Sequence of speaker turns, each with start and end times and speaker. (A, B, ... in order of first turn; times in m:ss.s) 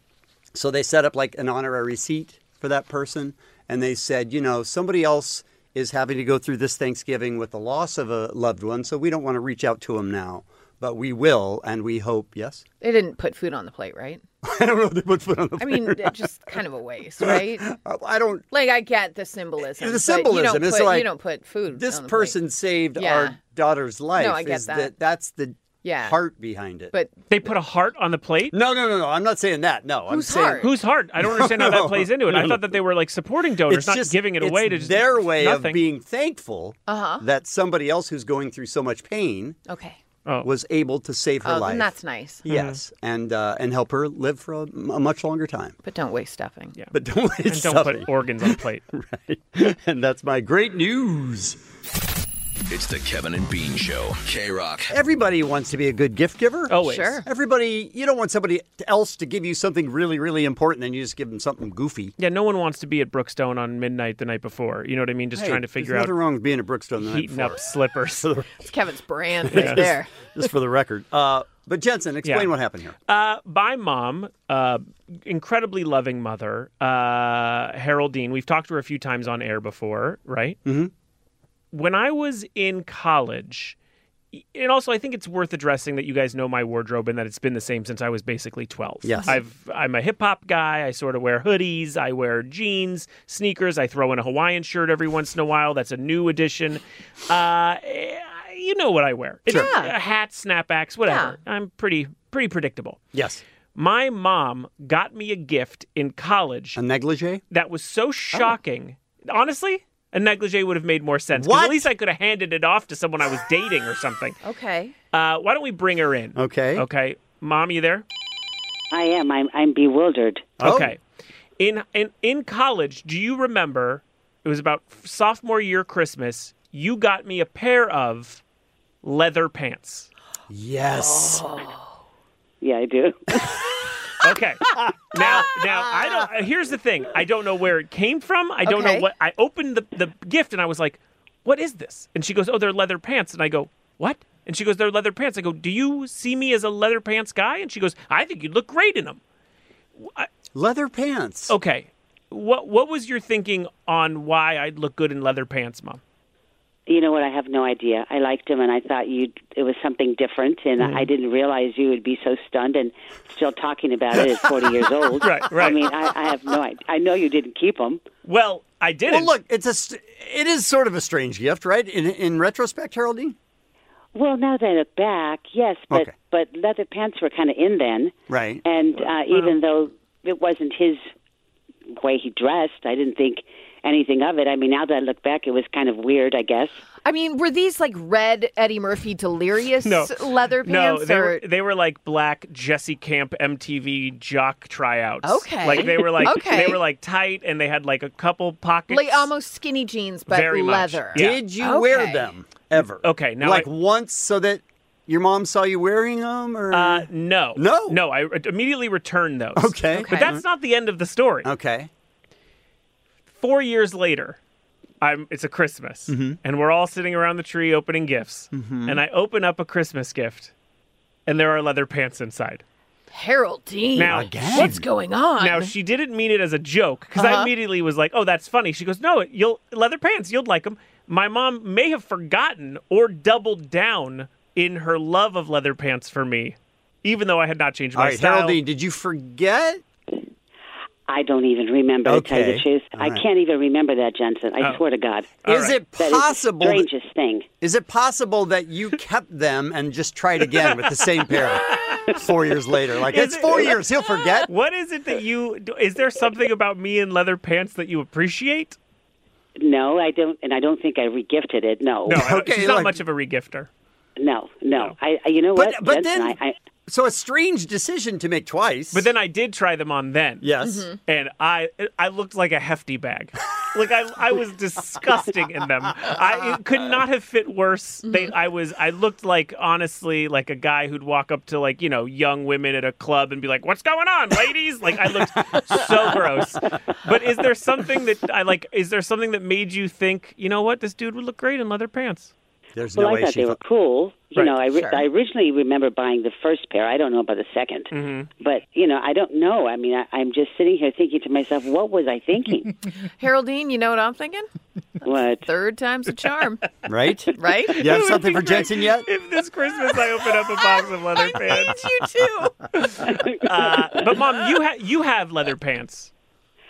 0:00.5-0:12.6 A
0:12.8-0:14.2 B
0:14.4-0:16.2 A
0:15.6-0:17.7 B
0:17.2-0:18.4 A
0:18.5-0:22.4 B
0:19.6-0:21.1 A
0:21.7-0:26.9 A
0:23.0-0:23.4 B
0:24.2-0:24.9 B
0:25.8-0:26.2 B
0:27.3-0:28.6 C
0:28.5-0:32.7 A
0:30.1-0:30.7 B
0:30.6-0:35.8 C
0:33.7-0:39.6 A
0:36.9-0:37.2 B
0:39.7-0:40.0 B
0:40.4-0:41.9 A
0:41.4-0:42.4 B
0:42.4-0:45.8 A
0:42.5-0:42.8 C
0:45.8-0:46.7 B
0:46.9-0:51.6 A
0:47.5-0:48.8 C
0:52.7-0:54.9 D
0:54.9-1:02.1 A
0:56.7-0:57.2 C
0:56.8-0:57.2 B
1:02.2-1:06.1 C
1:05.3-1:08.6 A
1:07.0-1:08.3 C
1:08.6-1:10.1 B
1:09.4-1:12.9 A
1:09.5-1:09.8 C
1:12.2-1:12.5 C
1:13.1-1:20.6 C
1:20.6-1:20.9 A
1:21.7-1:23.8 C
1:24.3-1:43.0 C
1:29.0-1:29.4 A
1:39.5-1:39.9 B
1:41.0-1:41.4 B
1:43.1-1:43.4 A
1:43.7-1:46.8 C
1:46.7-1:47.4 A
1:47.5-1:54.4 C
1:51.3-1:51.9 A
1:54.4-1:54.9 B
1:55.1-1:58.0 C
1:56.4-1:56.8 A
1:58.9-2:00.6 E
2:00.6-2:00.9 A
2:00.6-2:01.0 C
2:01.6-2:08.4 C
2:09.0-2:10.1 C
2:10.5-2:11.4 A
2:10.9-2:11.9 B
2:12.6-2:13.5 E
2:14.2-2:29.2 C
2:15.8-2:16.2 A
2:18.6-2:19.0 B
2:30.0-2:30.3 C
2:30.5-2:31.5 A
2:31.5-2:36.0 C
2:36.9-2:48.0 E
2:40.8-2:41.1 C
2:45.2-2:45.8 C
2:48.2-2:49.3 C
2:49.1-2:53.3 A
2:54.1-3:01.0 E
2:58.3-2:58.6 A
2:59.0-2:59.5 C
3:02.0-3:06.8 E
3:07.0-3:11.4 B
3:09.8-3:19.3 C
3:15.2-3:16.8 B
3:18.9-3:22.3 B
3:20.3-3:21.4 C
3:21.1-3:28.0 A
3:23.0-3:23.7 C
3:26.7-3:31.5 C
3:29.6-3:30.4 A
3:29.9-3:30.3 B
3:31.4-3:31.9 A
3:33.4-3:34.4 C
3:35.0-3:40.5 C
3:36.1-3:36.4 A
3:38.5-3:39.0 A
3:41.3-3:42.6 C
3:43.1-3:45.7 B
3:44.0-3:44.8 C
3:44.1-3:44.8 A
3:45.4-3:58.6 C
3:47.2-3:47.5 B
3:58.0-3:59.8 A
4:01.1-4:05.4 E
4:02.0-4:03.2 A
4:05.4-4:05.8 C
4:05.4-4:06.9 A
4:06.0-4:07.4 E
4:07.6-4:14.5 A
4:13.0-4:13.8 C
4:14.5-4:18.8 C
4:19.6-4:22.3 E
4:22.1-4:23.7 C
4:22.1-4:23.0 A
4:24.2-4:26.5 E
4:25.6-4:29.1 A
4:28.9-4:30.5 C
4:30.4-4:30.9 A
4:30.6-4:31.0 B
4:31.0-4:52.3 C
4:52.8-4:53.6 A
4:52.9-5:02.7 E
4:54.7-4:55.0 B
4:57.9-4:58.3 C
5:03.2-5:04.4 B
5:05.0-5:05.4 E
5:05.4-5:06.6 B
5:06.9-5:09.1 A
5:07.4-5:07.9 B
5:07.8-5:11.8 C
5:11.1-5:12.6 B
5:12.9-5:16.1 C
5:13.1-5:13.9 E